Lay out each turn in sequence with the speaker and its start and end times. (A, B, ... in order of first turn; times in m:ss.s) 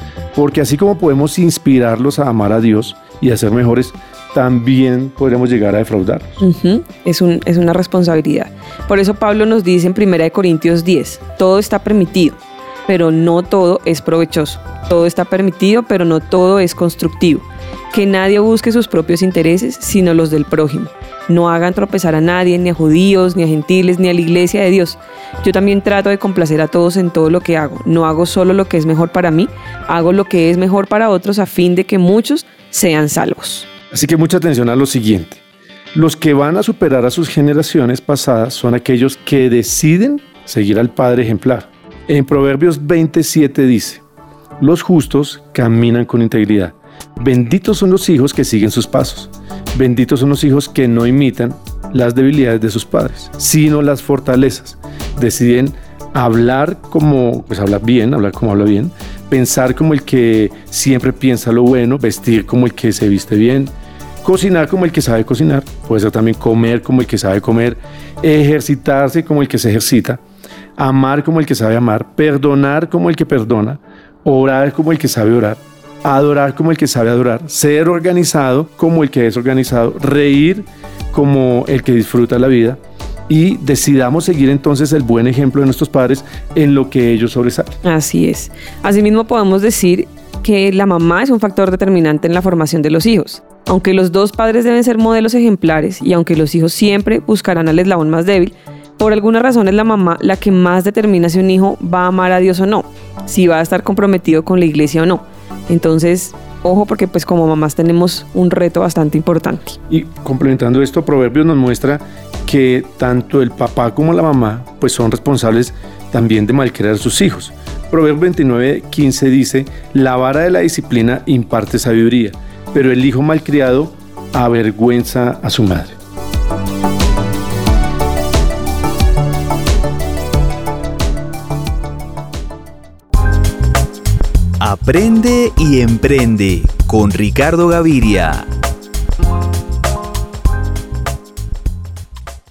0:00.4-0:06.4 A
0:06.4-0:33.7 B
0:33.9-0:35.4 A
0:35.9-0:44.0 A
0:44.6-1:03.7 A
1:04.2-1:10.2 A
1:10.8-1:27.8 A
1:27.8-1:49.8 B
1:49.9-2:06.0 A
2:14.6-2:18.5 C